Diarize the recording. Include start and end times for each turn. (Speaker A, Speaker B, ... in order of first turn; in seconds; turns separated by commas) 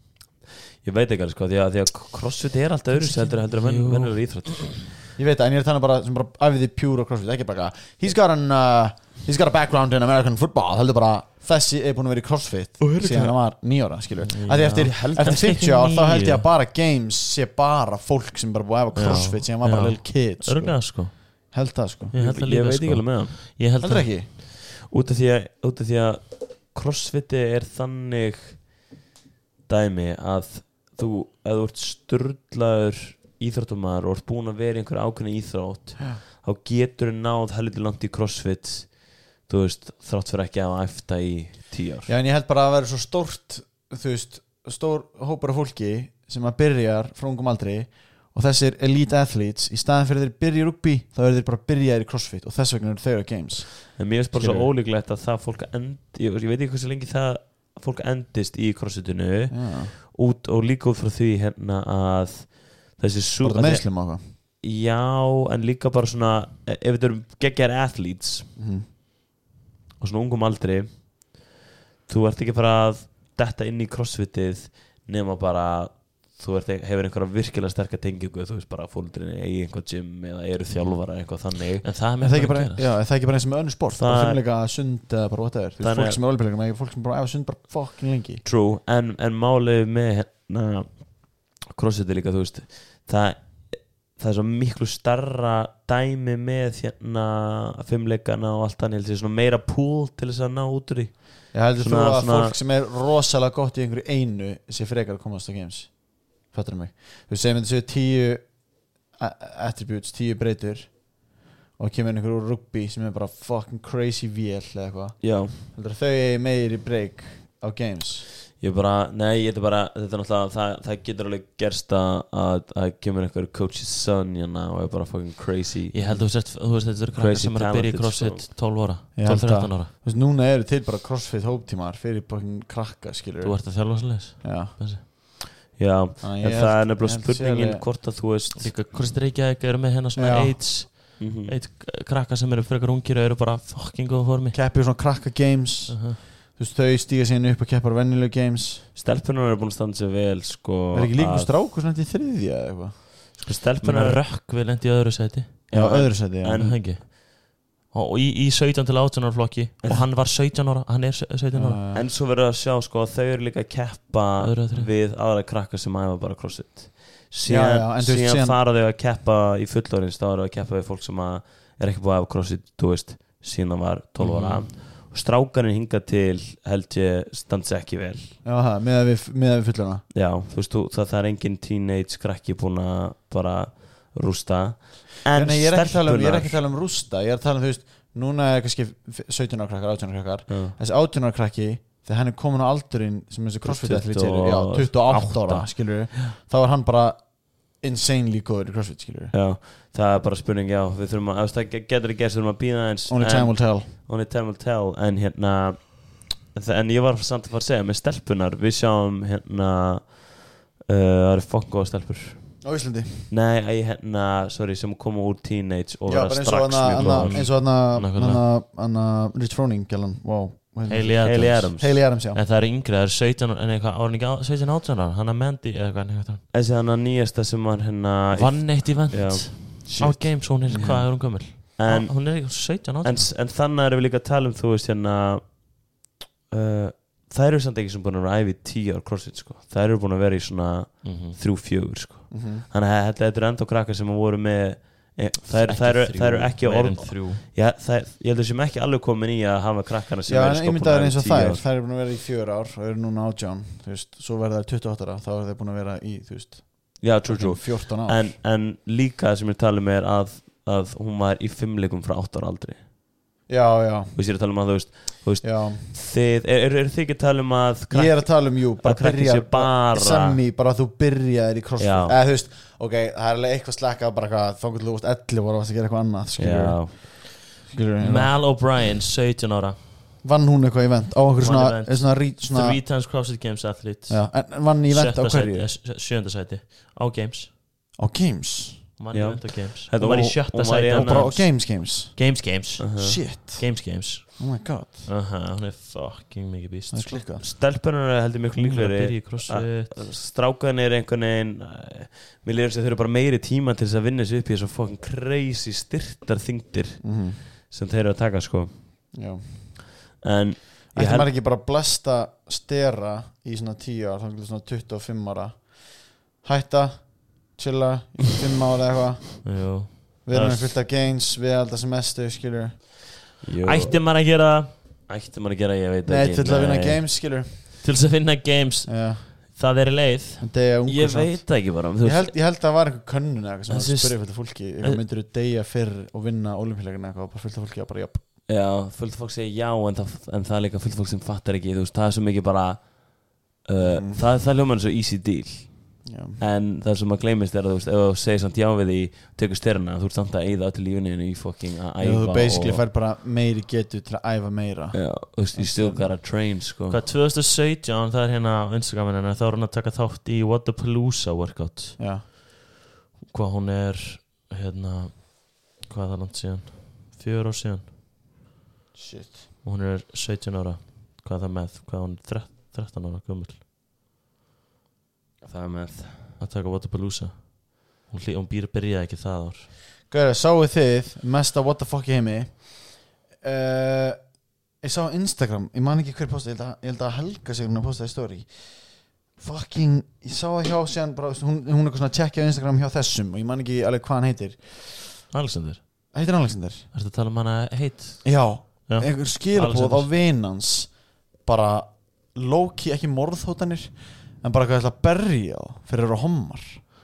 Speaker A: 0.8-4.9, Speaker B: 2.9-4.5, Speaker C: 5.2-22.1, Speaker A: 12.8-13.3, Speaker B: 14.2-16.5, Speaker A: 14.6-15.5, Speaker B: 18.9-21.5, Speaker B: 22.1-24.1, Speaker A: 22.1-23.4, Speaker C: 23.8-24.3, Speaker A: 24.4-28.7, Speaker A: 29.7-42.1, Speaker C: 42.0-54.7, Speaker A: 54.0-68.5, Speaker C: 59.5-59.9, Speaker C: 63.4-64.2, Speaker C: 68.5-68.9, Speaker A: 70.0-71.5, Speaker A: 72.1-81.9, Speaker B: 81.8-82.9, Speaker C: 82.2-88.4, Speaker A: 84.0-84.4, Speaker A: 85.8-86.2, Speaker A: 88.4-102.6, Speaker C: 101.5-118.2, Speaker A: 115.2-115.6, Speaker A: 118.6-126.1, Speaker B: 125.9-129.9, Speaker A: 127.1-128.4, Speaker C: 129.2-134.8, Speaker B: 133.4-135.0, Speaker A: 135.6-138.8, Speaker C: 136.2-137.8, Speaker B: 138.6-144.6, Speaker C: 140.2-140.7, Speaker A: 141.2-141.6, Speaker C: 144.5-148.8, Speaker B: 145.9-146.2, Speaker A: 148.9-151.5, Speaker C: 150.9-153.0, Speaker A: 153.4-154.2, Speaker B: 153.8-155.6, Speaker A: 155.7-156.9, Speaker C: 155.7-156.7, Speaker B: 156.6-161.8, Speaker C: 161.5-162.1, Speaker A: 161.9-178.3, Speaker B: 164.4-164.9, Speaker C: 167.4-168.6, Speaker B: 174.2-174.7, Speaker C: 178.4-180.0, Speaker A: 180.1-186.6, Speaker C: 185.3-199.3, Speaker A: 190.5-190.8, Speaker A: 193.6-196.0, Speaker A: 199.3-212.6, Speaker C: 203.1-203.9, Speaker C: 212.6-213.3, Speaker A: 213.3-217.4, Speaker C: 216.1-222.4, Speaker B: 217.0-218.4, Speaker B: 220.9-226.4, Speaker A: 221.2-222.0, Speaker A: 226.5-229.8, Speaker B: 228.3-233.3, Speaker C: 229.8-231.1, Speaker A: 230.7-251.6, Speaker B: 241.0-241.4, Speaker C: 242.3-242.7, Speaker B: 245.4-247.4, Speaker C: 250.3-258.4, Speaker A: 257.0-262.8, Speaker C: 263.5-264.1, Speaker A: 264.1-270.4, Speaker C: 265.4-265.9, Speaker C: 267.9-278.3, Speaker A: 271.8-272.2, Speaker A: 276.4-277.0, Speaker B: 278.0-279.8, Speaker C: 280.2-282.8, Speaker B: 281.4-287.5, Speaker C: 284.1-285.7, Speaker C: 288.0-288.9, Speaker B: 289.0-294.5, Speaker A: 289.1-291.4, Speaker C: 290.0-290.3, Speaker C: 290.9-292.3, Speaker A: 292.8-293.2, Speaker C: 293.0-295.1, Speaker B: 295.1-297.2, Speaker C: 296.9-297.4, Speaker A: 297.4-309.0, Speaker B: 298.6-300.0, Speaker C: 307.0-307.4, Speaker C: 309.1-309.8, Speaker A: 310.2-311.3, Speaker C: 310.9-322.8, Speaker B: 319.4-320.7, Speaker A: 323.4-324.0, Speaker B: 323.6-324.7, Speaker A: 325.1-327.0, Speaker C: 326.1-327.6, Speaker B: 327.8-330.4, Speaker C: 328.9-329.2, Speaker C: 330.4-338.3, Speaker A: 330.9-332.4, Speaker A: 333.7-334.6, Speaker A: 338.5-352.8, Speaker C: 343.8-344.2, Speaker C: 346.0-346.4, Speaker C: 352.0-356.1, Speaker A: 354.9-357.0, Speaker B: 356.9-362.0, Speaker C: 362.0-362.2, Speaker B: 363.3-367.9, Speaker C: 368.9-369.4, Speaker B: 369.6-373.6, Speaker A: 375.4-376.4, Speaker B: 376.4-379.7, Speaker C: 380.1-395.2, Speaker B: 395.3-395.8, Speaker C: 396.1-396.9, Speaker B: 396.9-400.1, Speaker C: 398.2-406.8